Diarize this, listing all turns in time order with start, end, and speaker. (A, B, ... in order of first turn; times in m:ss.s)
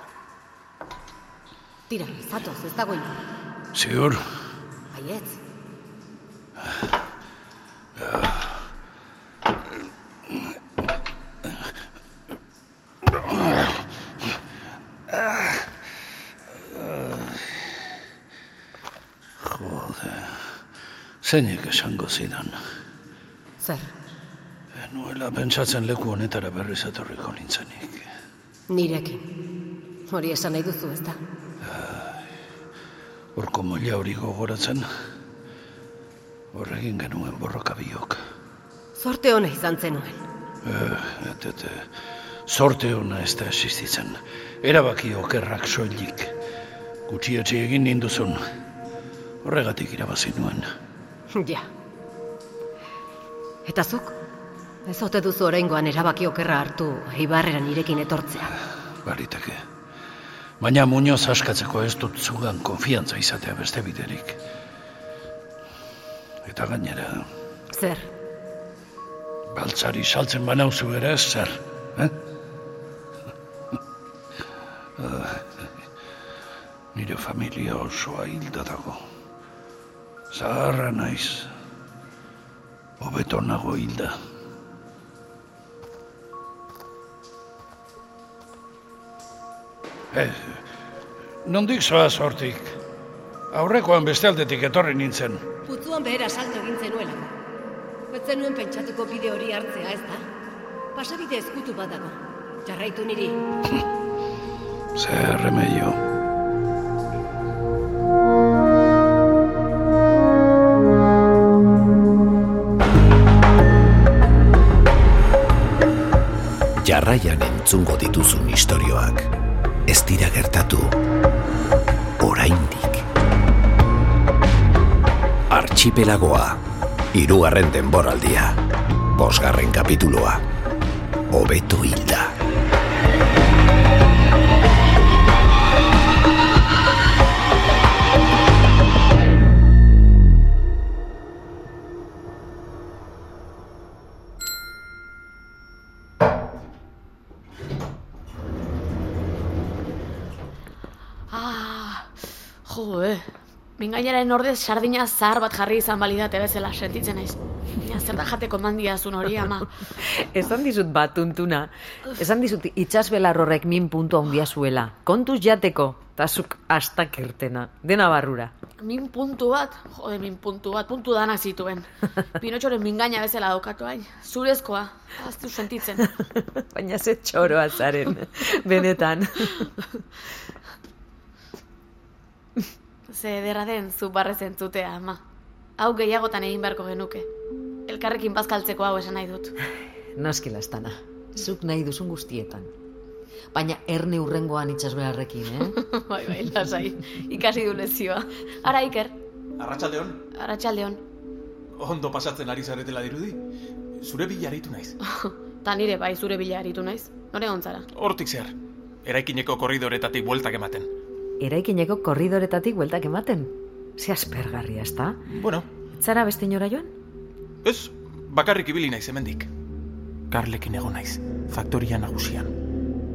0:01.9-0:03.2 A
0:03.7-0:04.2 B
0:04.9-0:05.4 A
0:08.0-0:08.5 B
0:13.1-0:13.8 B
0:15.1-0:15.7 B
0:16.5-0:17.8 B
0:19.4-0:20.6 B
0:21.2-0:22.6 B
0:23.6-0:23.9 A
0:24.8-0:28.1 B
0:28.7-0:29.2 A
0:30.1-0:31.2 A
0:31.6-0:32.2 B
0:33.3-0:34.9 B
0:36.5-0:38.2 B
0:39.0-0:40.2 A
0:40.6-0:41.9 B
0:42.4-0:46.3 B
0:47.1-0:48.4 B
0:49.4-0:50.7 B
0:51.3-0:51.7 A
0:53.6-0:54.2 A
0:54.8-0:58.5 A
0:59.0-0:59.6 B
1:00.6-1:04.4 B
1:06.4-1:07.3 B
1:07.7-1:08.1 A
1:09.5-1:12.1 B
1:15.0-1:15.7 B
1:16.9-1:19.0 B
1:20.3-1:21.5 B
1:23.0-1:24.2 B
1:30.1-1:30.6 B
1:31.4-1:32.8 B
1:33.5-1:35.4 B
1:35.6-1:37.3 A
1:38.1-1:40.2 A
1:40.9-1:43.4 A
1:44.9-1:46.0 B
1:56.8-1:59.3 C
1:59.9-2:01.0 C
2:02.2-2:03.0 C
2:05.5-2:06.6 C
2:07.1-2:08.6 C
2:09.1-2:10.4 C
2:11.3-2:12.3 C
2:31.3-2:39.8 D
2:40.0-2:48.5 E
2:48.8-2:51.9 D
2:52.4-2:56.1 D
2:56.2-3:00.0 E
3:03.1-3:05.2 D
3:05.8-3:07.2 D
3:07.9-3:09.5 D
3:10.2-3:12.7 E
3:13.5-3:15.8 E
3:15.7-3:19.2 D
3:19.6-3:20.2 F
3:20.3-3:21.0 D
3:21.8-3:23.4 F
3:24.0-3:25.0 F
3:25.0-3:27.9 D
3:27.9-3:28.5 F
3:29.0-3:30.9 F
3:31.4-3:35.2 E
3:35.3-3:35.6 F
3:35.9-3:36.9 E
3:37.6-3:39.5 F
3:40.3-3:42.5 F